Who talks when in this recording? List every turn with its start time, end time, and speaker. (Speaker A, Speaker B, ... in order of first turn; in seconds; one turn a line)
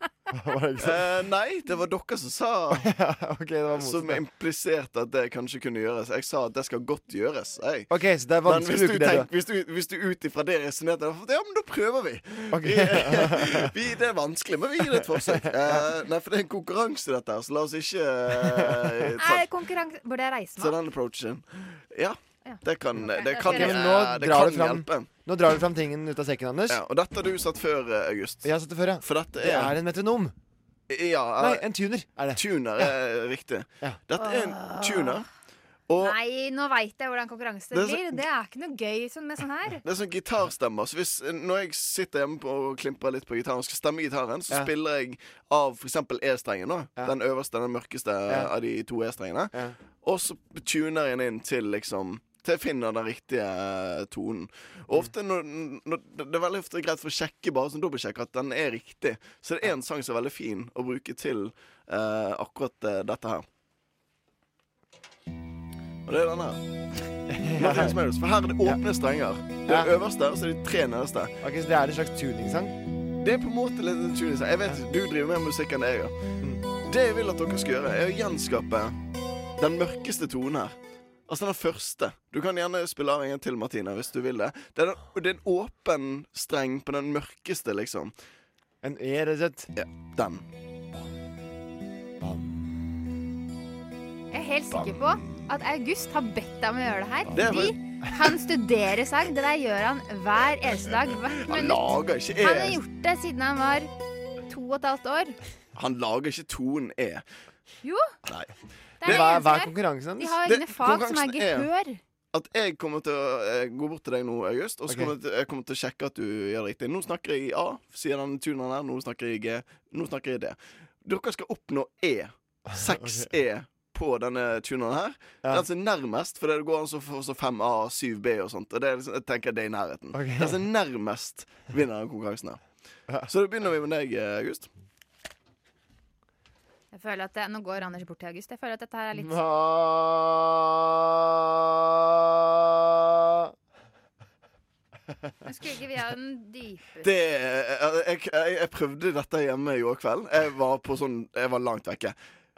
Speaker A: 0.3-1.1
Speaker B: 0.8-2.9
Speaker A: 2.7-4.2
Speaker B: 3.7-7.9
Speaker A: 7.9-9.3
Speaker B: 8.4-19.5
Speaker A: 12.5-13.6
Speaker A: 15.3-15.8
Speaker C: 19.2-20.8
Speaker B: 20.6-25.1
Speaker C: 22.4-23.8
Speaker A: 23.4-26.8
Speaker B: 26.7-28.5
Speaker A: 28.4-30.3
Speaker B: 29.0-29.8
Speaker B: 30.9-31.6
Speaker A: 31.4-32.4
Speaker B: 32.4-35.2
Speaker C: 34.2-35.2
Speaker B: 35.9-36.2
Speaker C: 36.0-39.8
Speaker B: 37.7-38.2
Speaker B: 39.8-63.5
Speaker B: 66.1-66.6
Speaker A: 67.3-68.0
Speaker B: 67.5-71.3
Speaker A: 69.7-69.9
Speaker A: 71.4-72.8
Speaker B: 73.2-76.1
Speaker B: 76.8-79.0
Speaker B: 79.6-80.8
Speaker B: 81.3-88.1
Speaker A: 88.8-89.7
Speaker B: 89.8-90.4
Speaker A: 92.2-92.5
Speaker C: 94.3-103.9
Speaker B: 97.3-97.8
Speaker B: 101.4-102.8
Speaker C: 104.5-105.4
Speaker B: 105.8-107.2
Speaker C: 107.8-108.2
Speaker B: 108.3-108.5
Speaker C: 109.0-112.0
Speaker B: 109.0-109.5
Speaker A: 109.0-110.4
Speaker B: 110.4-111.7
Speaker B: 112.3-132.6
Speaker A: 122.7-123.3
Speaker A: 130.1-130.6
Speaker B: 133.2-134.7
Speaker C: 136.9-139.4
Speaker A: 139.2-142.2
Speaker A: 142.9-143.5
Speaker C: 145.4-147.1
Speaker B: 147.0-152.2